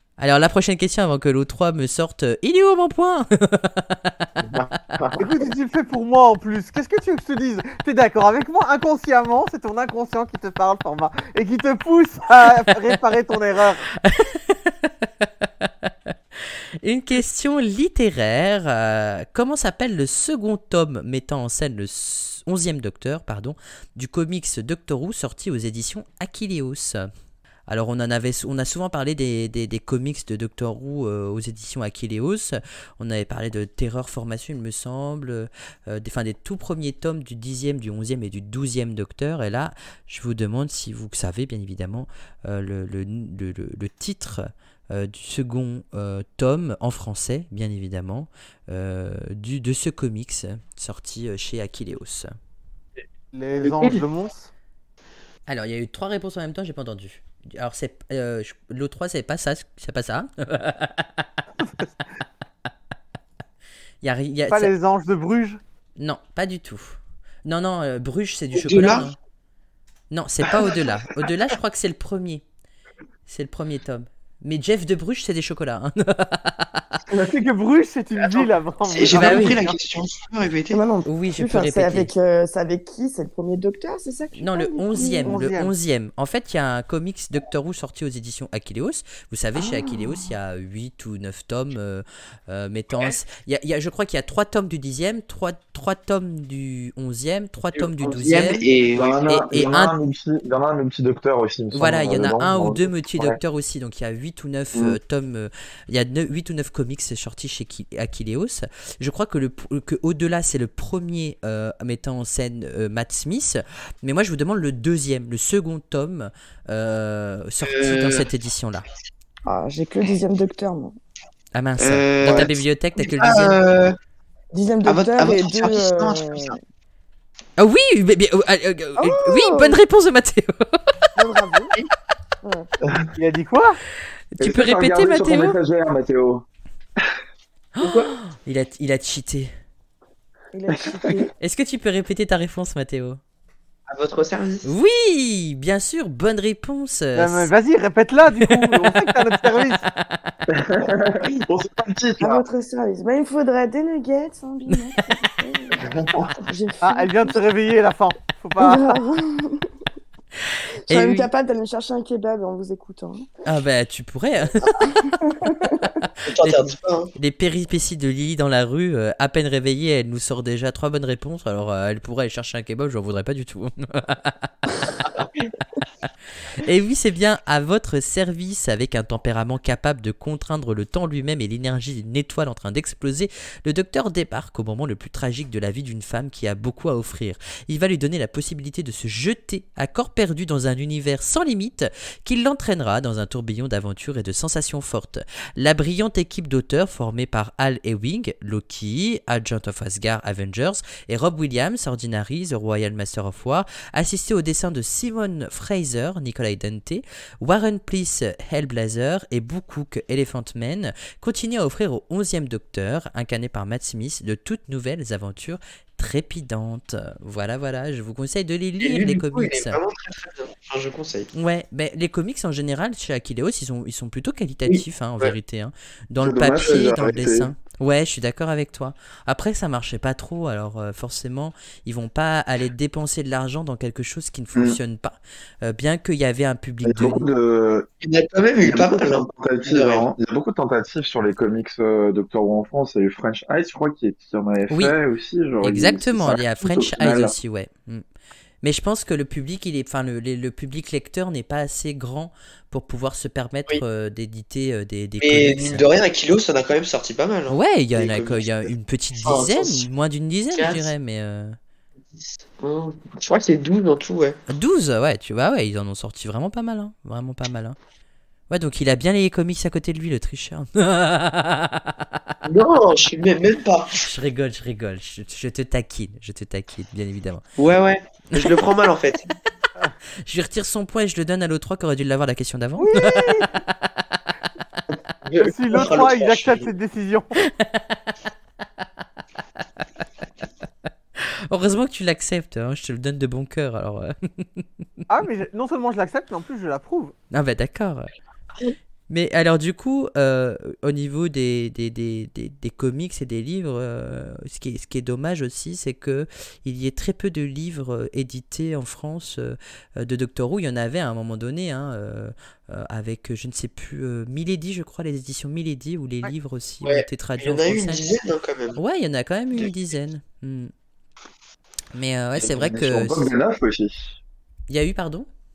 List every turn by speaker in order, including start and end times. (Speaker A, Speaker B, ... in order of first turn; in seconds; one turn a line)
Speaker A: 0.2-4.3
Speaker B: 4.6-5.2
Speaker C: 5.2-13.9
Speaker A: 14.0-16.1
Speaker A: 16.8-27.1
Speaker A: 27.7-52.3
Speaker C: 53.3-54.5
Speaker D: 53.6-54.0
Speaker A: 55.5-61.3
Speaker A: 64.0-64.7
Speaker C: 64.5-65.6
Speaker A: 66.0-69.2
Speaker D: 68.5-69.1
Speaker A: 70.1-72.4
Speaker A: 73.3-76.9
Speaker C: 77.1-79.8
Speaker D: 78.2-80.8
Speaker A: 79.1-79.6
Speaker E: 80.7-85.4
Speaker A: 81.0-82.1
Speaker A: 84.4-98.6
Speaker C: 85.2-85.7
Speaker E: 89.5-90.1
Speaker D: 97.8-99.2
Speaker B: 99.0-103.4
Speaker A: 99.3-99.9
Speaker A: 101.7-118.8
Speaker D: 117.6-118.3
Speaker E: 119.5-121.0
Speaker A: 121.5-123.6
Speaker D: 121.8-124.0
Speaker B: 122.2-122.5
Speaker E: 124.5-126.6
Speaker D: 124.9-126.5
Speaker A: 127.6-130.9
Speaker E: 129.0-129.8
Speaker E: 131.2-131.7
Speaker E: 132.4-132.7
Speaker C: 133.1-133.8
Speaker A: 134.3-135.6
Speaker B: 134.4-136.4
Speaker A: 137.8-139.5
Speaker D: 137.8-138.1
Speaker E: 140.5-141.3
Speaker B: 140.8-141.2
Speaker A: 141.4-143.2
Speaker D: 143.9-144.7
Speaker A: 144.6-147.5
Speaker C: 147.2-149.9
Speaker A: 148.4-149.1
Speaker B: 150.5-152.4
Speaker E: 152.2-155.9
Speaker B: 155.8-156.3
Speaker E: 156.4-157.4
Speaker C: 156.8-159.0
Speaker E: 158.6-159.7
Speaker E: 160.9-163.3
Speaker A: 160.9-161.3
Speaker A: 163.4-165.2
Speaker E: 164.8-166.0
Speaker A: 166.0-166.6
Speaker D: 166.2-167.1
Speaker A: 167.2-174.9
Speaker D: 175.0-175.5
Speaker A: 176.5-219.8
Speaker D: 218.8-221.3
Speaker A: 221.3-237.3
Speaker D: 224.7-225.3
Speaker B: 226.2-227.5
Speaker B: 236.8-237.9
Speaker D: 238.0-240.1
Speaker B: 238.6-247.3
Speaker A: 244.7-244.9
Speaker A: 245.6-248.0
Speaker A: 248.6-255.8
Speaker D: 255.2-258.7
Speaker A: 257.5-261.6
Speaker D: 259.2-259.9
Speaker D: 260.5-260.9
Speaker D: 262.6-264.4
Speaker A: 264.5-267.8
Speaker A: 268.5-272.2
Speaker D: 272.4-274.0
Speaker A: 274.0-277.4
Speaker D: 277.6-279.2
Speaker A: 278.3-278.6
Speaker A: 280.2-284.2
Speaker C: 282.8-283.5
Speaker D: 285.2-286.7
Speaker C: 285.4-287.4
Speaker A: 287.4-288.0
Speaker A: 291.5-294.6
Speaker C: 295.1-297.1
Speaker A: 297.3-298.1
Speaker A: 299.1-318.2
Speaker D: 316.8-318.8
Speaker A: 318.8-320.7
Speaker A: 321.9-323.3
Speaker B: 322.4-324.2
Speaker A: 324.7-325.3